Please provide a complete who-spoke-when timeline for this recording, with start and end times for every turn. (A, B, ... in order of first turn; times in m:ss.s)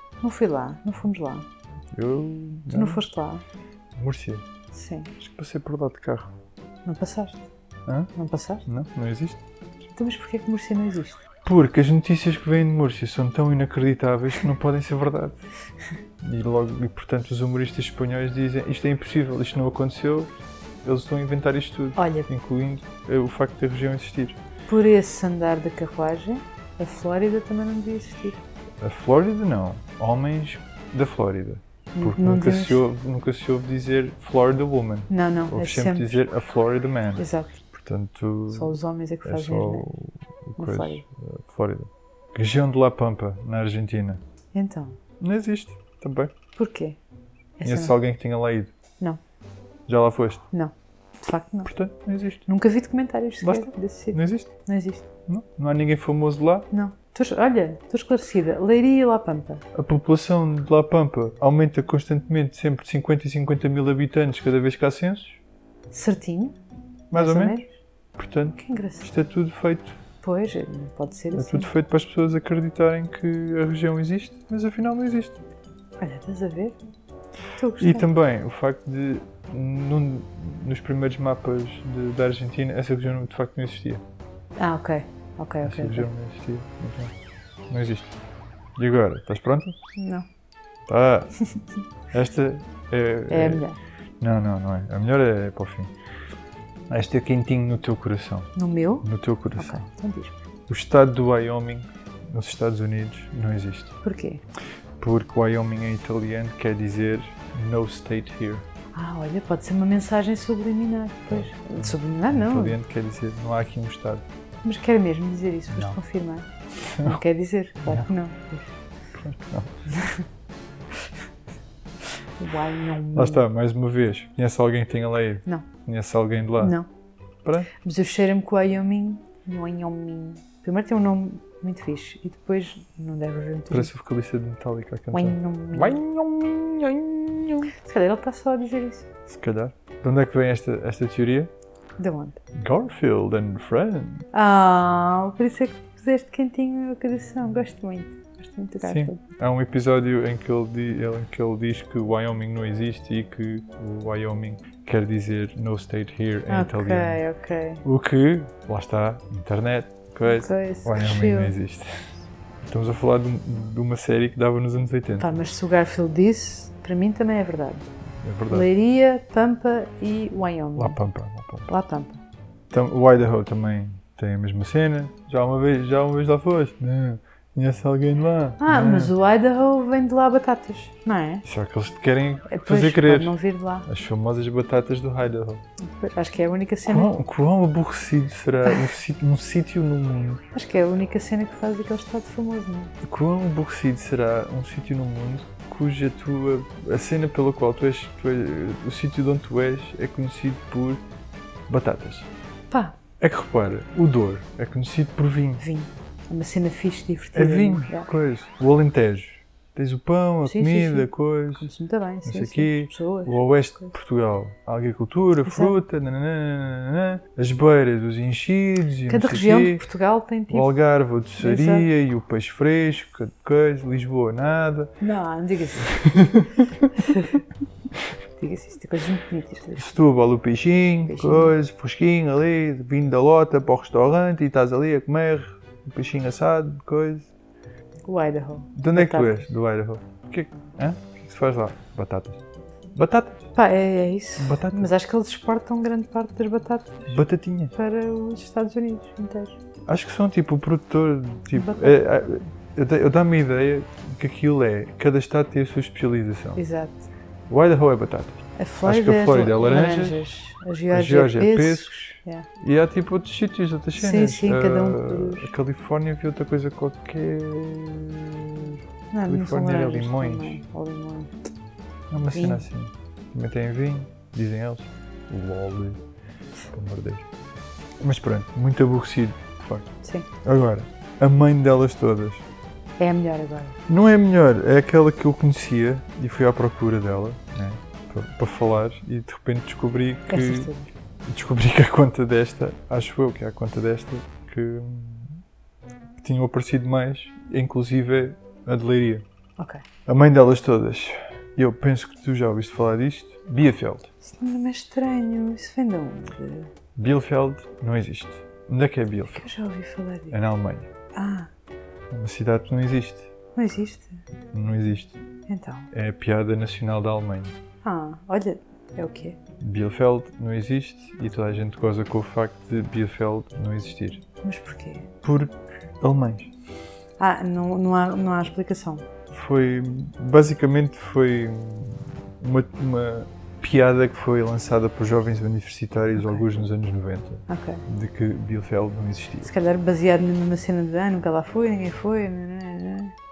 0:00.2-0:01.5 A
0:02.0-0:03.0 B
0:02.7-0:03.4 A
0:04.0-0:04.4 B
0:04.7-0:05.1 A
0:05.2-0:06.3 B
0:06.9-0:07.4 A
0:08.2-0:08.6 A
0:08.7-0:09.4 B
0:10.0-0:11.2 A
0:11.4-0:15.4 B
0:16.2-0:20.3 B
0:20.8-0:24.4 B
0:22.0-0:22.3 A
0:24.7-0:28.4 A
0:28.8-0:44.2 B
0:32.0-0:32.9 A
0:35.1-0:36.2 A
0:37.2-0:37.6 A
0:38.5-0:39.9 A
0:40.6-0:41.0 A
0:44.5-0:45.0 A
0:45.2-0:46.3 B
0:46.6-0:47.0 A
0:47.6-0:48.0 A
0:47.6-0:48.7 B
0:49.9-0:50.4 B
0:50.5-0:51.7 A
0:51.6-0:52.4 B
0:52.5-0:55.0 A
0:53.4-0:54.5 B
0:55.3-0:56.7 B
0:56.7-0:59.6 A
0:59.8-1:05.4 B
1:05.9-1:06.6 A
1:07.1-1:07.6 B
1:07.1-1:07.7 A
1:08.2-1:10.0 B
1:08.5-1:09.1 A
1:10.2-1:11.7 A
1:11.4-1:15.4 B
1:16.0-1:16.8 A
1:17.6-1:18.1 A
1:17.8-1:24.0 B
1:24.6-1:26.1 A
1:25.6-1:27.1 B
1:27.7-1:28.1 B
1:28.8-1:29.7 B
1:30.0-1:30.2 A
1:30.9-1:31.4 B
1:32.1-1:33.6 B
1:33.3-1:33.8 A
1:34.2-1:35.9 B
1:36.9-1:38.5 B
1:38.6-1:40.3 A
1:39.0-1:39.8 B
1:40.7-1:44.0 B
1:44.0-1:44.4 A
1:45.0-1:48.6 B
1:48.9-1:52.8 A
1:51.3-1:54.2 B
1:54.6-1:56.5 A
1:55.7-1:56.0 B
1:56.9-1:57.2 B
1:57.0-1:58.7 A
1:57.8-1:58.1 B
1:59.1-1:59.7 B
1:59.9-2:00.2 A
2:02.4-2:03.5 A
2:03.1-2:06.8 B
2:06.6-2:06.9 A
2:07.4-2:07.7 B
2:07.8-2:13.9 A
2:13.7-2:17.7 B
2:15.1-2:16.0 A
2:17.6-2:19.1 A
2:19.3-2:21.5 B
2:22.0-2:22.4 A
2:22.6-2:24.2 B
2:24.3-2:29.2 A
2:28.8-2:37.2 B
2:36.5-2:37.8 A
2:37.8-2:42.0 B
2:40.2-2:41.6 A
2:42.7-2:45.4 B
2:45.2-2:47.9 A
2:48.2-2:48.7 B
2:48.5-2:51.0 A
2:50.8-2:51.7 B
2:51.7-2:52.2 A
2:52.7-2:59.1 B
2:58.6-3:01.4 A
3:01.4-3:05.6 B
3:02.5-3:03.9 A
3:05.8-3:07.1 A
3:06.9-3:10.4 B
3:10.5-3:12.9 A
3:13.0-3:21.0 B
3:21.7-3:22.3 B
3:22.7-3:23.0 A
3:23.2-3:25.6 B
3:25.6-3:28.1 A
3:27.3-3:31.7 B
3:30.5-3:33.9 A
3:32.3-3:39.8 B
3:35.4-3:35.8 A
3:39.1-3:40.8 A
3:40.5-3:44.9 B
3:41.4-3:41.9 A
3:45.0-3:46.0 A
3:45.9-3:46.9 B
3:47.0-3:47.4 A
3:48.4-3:49.9 A
3:49.8-3:57.3 B
3:51.0-3:51.6 A
3:58.1-3:59.5 A
3:58.8-4:02.4 B
4:03.0-4:03.4 B
4:03.6-4:07.2 A
4:04.4-4:04.9 B
4:07.1-4:07.7 B
4:07.7-4:09.6 A
4:09.9-4:16.6 B
4:11.5-4:12.0 A
4:16.6-4:17.1 A
4:17.5-4:20.2 B
4:18.6-4:22.5 A
4:20.9-4:30.6 B
4:24.0-4:25.5 A
4:29.1-4:31.3 A
4:32.1-4:36.0 B
4:32.2-4:32.7 A
4:36.7-4:37.2 B
4:38.0-4:39.9 B
4:40.0-4:40.3 A
4:40.4-4:42.4 B
4:43.0-4:43.8 A
4:43.9-4:50.7 B
4:50.3-4:50.9 A
4:51.3-4:55.4 B
4:56.2-4:59.2 B
5:00.1-5:04.1 B
5:04.2-5:06.7 A
5:07.0-5:09.5 B
5:09.3-5:10.4 A
5:10.3-5:10.9 B
5:11.2-5:11.5 A
5:12.1-5:13.3 B
5:13.6-5:14.2 A
5:14.5-5:15.2 B
5:15.5-5:15.9 A
5:15.9-5:17.6 B
5:17.8-5:19.4 A
5:19.6-5:24.2 B
5:24.4-5:25.1 A
5:25.2-5:26.5 B
5:27.2-5:29.0 A
5:29.3-5:39.5 B
5:36.2-5:36.6 A
5:37.5-5:37.8 A
5:39.4-5:43.1 A